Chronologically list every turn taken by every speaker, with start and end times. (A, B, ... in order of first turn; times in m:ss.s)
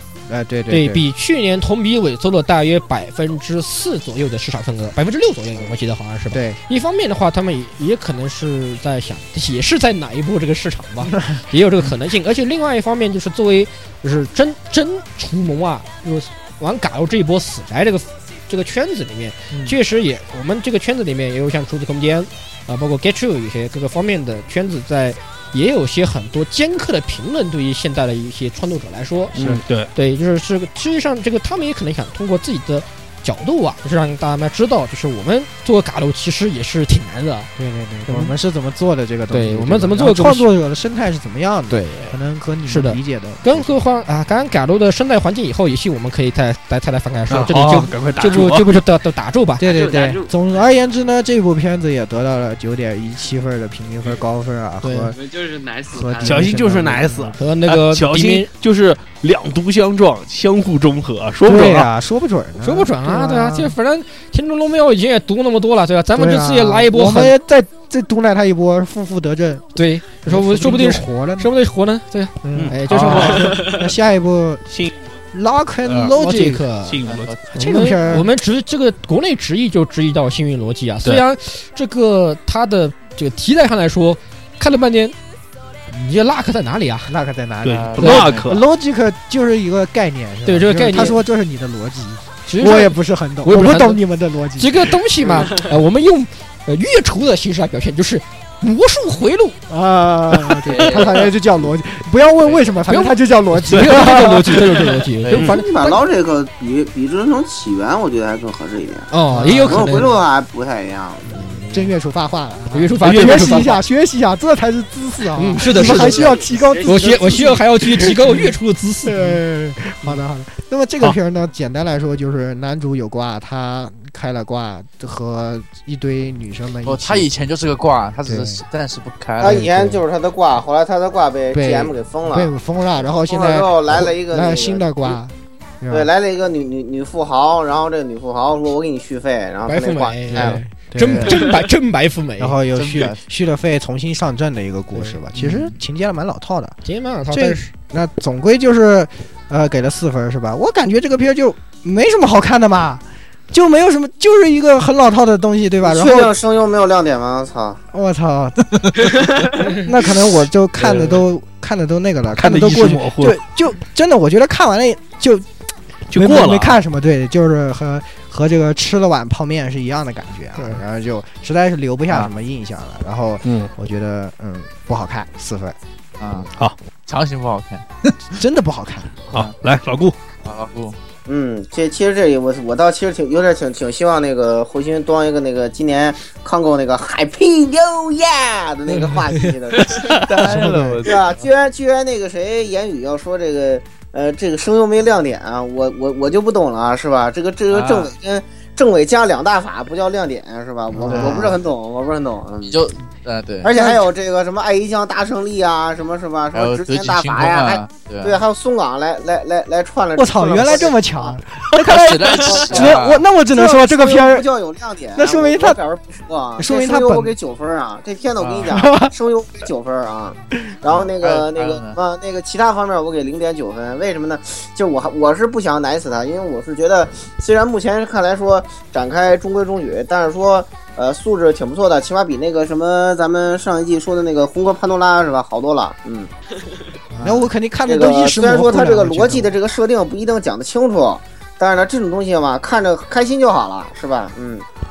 0:00.3-0:01.0 A
0:00.7-0:37.5 B
0:06.3-0:06.6 A
0:11.0-0:11.4 A
0:19.5-0:19.8 A
0:29.4-0:29.6 A
0:29.4-0:29.9 C
0:37.6-0:43.8 A
0:38.1-0:38.3 B
0:39.3-0:40.5 B
0:41.7-0:49.7 B
0:47.3-0:48.7 C
0:49.6-0:55.2 A
0:49.6-0:50.3 D
0:54.8-0:55.1 B
0:55.1-0:56.4 D
0:55.9-0:57.4 A
0:56.2-1:01.9 C
0:57.4-0:58.5 B
1:01.4-1:03.7 A
1:02.6-1:07.4 B
1:06.1-1:09.7 A
1:09.8-1:13.5 B
1:10.2-1:11.5 A
1:12.4-1:14.6 A
1:12.5-1:13.6 C
1:15.3-1:16.7 A
1:16.1-1:17.0 B
1:16.9-1:17.3 C
1:17.0-1:17.4 E
1:17.5-1:18.3 A
1:17.5-1:25.1 B
1:25.9-1:27.1 B
1:27.1-1:35.5 A
1:27.6-1:28.6 C
1:27.7-1:28.5 E
1:30.4-1:31.2 B
1:32.5-1:34.0 B
1:34.6-1:39.6 B
1:39.7-1:44.6 A
1:40.7-1:41.1 E
1:42.9-1:46.0 B
1:45.2-1:45.5 E
1:45.4-1:49.1 F
1:49.1-1:50.2 B
1:49.3-1:50.1 A
1:49.6-1:51.4 F
1:51.3-1:51.9 B
1:51.6-1:58.5 A
1:52.7-1:53.8 B
1:53.0-1:53.7 C
1:55.4-1:59.4 B
1:55.7-1:57.2 D
1:59.0-2:07.3 A
2:06.8-2:09.7 E
2:08.2-2:08.6 A
2:09.4-2:15.2 F
2:09.4-2:10.0 A
2:11.5-2:16.1 A
2:15.9-2:20.6 F
2:19.7-2:22.6 B
2:20.3-2:21.5 A
2:22.4-2:26.8 A
2:22.8-2:23.2 E
2:25.4-2:25.8 E
2:26.8-2:27.7 B
2:27.3-2:36.3 A
2:35.8-2:37.8 F
2:37.9-2:45.5 A
2:42.4-2:43.4 C
2:46.1-2:46.8 C
2:46.1-2:55.8 A
2:50.6-2:50.8 B
2:53.4-2:53.7 C
2:56.2-2:56.5 E
2:57.0-2:58.2 E
2:58.4-2:59.1 A
2:59.3-3:00.1 C
3:00.4-3:01.0 E
3:01.3-3:10.3 F
3:08.9-3:09.5 B
3:10.0-3:11.4 E
3:10.4-3:11.0 A
3:11.0-3:22.8 F
3:17.7-3:18.1 E
3:20.9-3:21.6 A
3:21.1-3:21.5 E
3:22.6-3:23.7 E
3:23.6-3:31.4 F
3:23.7-3:24.1 A
3:26.5-3:28.4 E
3:30.2-3:34.5 A
3:31.8-3:33.2 E
3:32.4-3:56.3 F
3:35.2-3:35.8 A
3:36.6-3:37.3 A
3:38.4-3:38.8 E
3:38.7-3:39.1 A
3:40.9-3:42.0 E
3:57.1-3:59.5 A
3:57.9-4:04.6 F